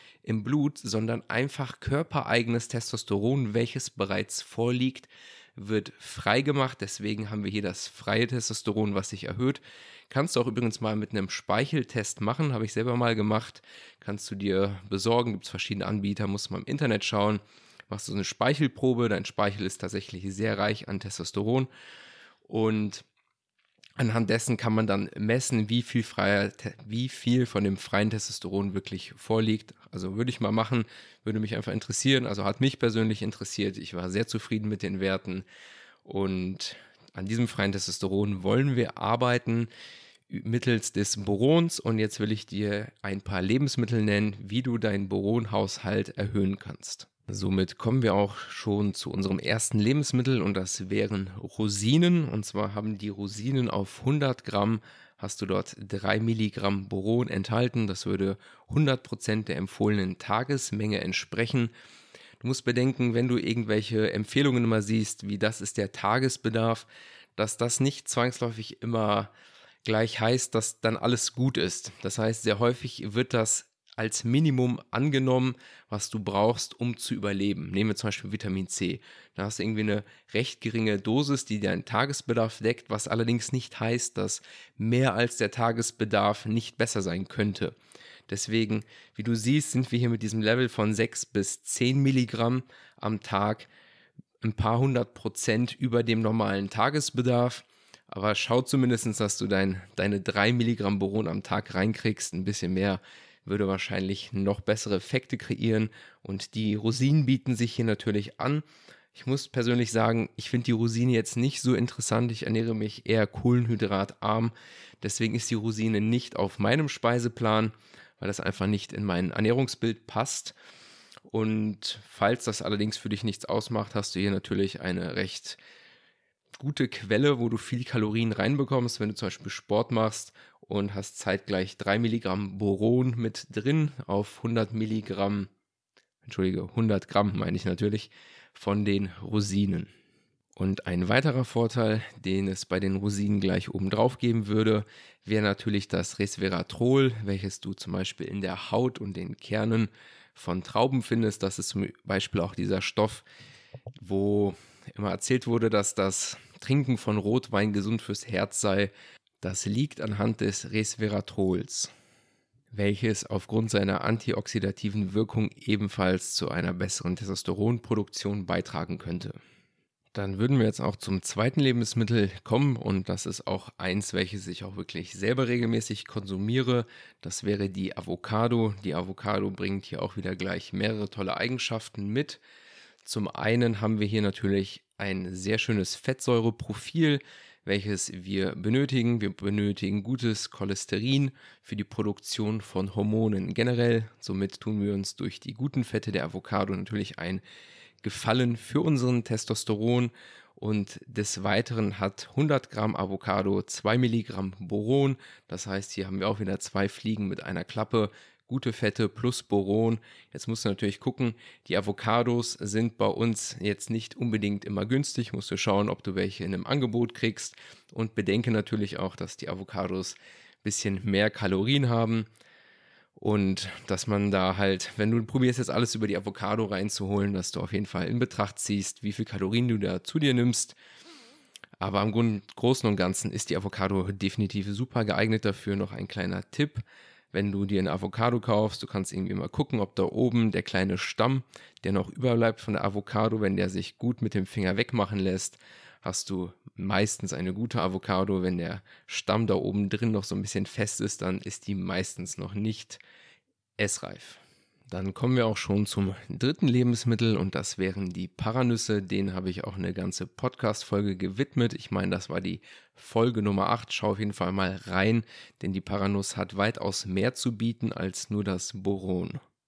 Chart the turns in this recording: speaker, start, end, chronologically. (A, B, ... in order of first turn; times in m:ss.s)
0:00.2-0:21.7 A
0:22.5-0:23.1 A
0:24.0-0:35.4 A
0:36.0-0:39.7 A
0:40.3-1:01.7 A
1:02.4-1:09.3 A
1:09.8-1:27.7 A
1:28.3-1:33.7 A
1:34.4-2:00.6 A
2:01.3-2:05.6 A
2:06.6-2:15.5 A
2:16.2-2:19.9 A
2:20.6-2:33.3 A
2:34.0-2:41.9 A
2:42.7-2:49.4 A
2:50.1-3:02.4 A
3:03.0-3:17.4 A
3:18.0-3:42.3 A
3:43.2-3:50.8 A
3:51.8-4:13.0 A
4:13.8-4:29.4 A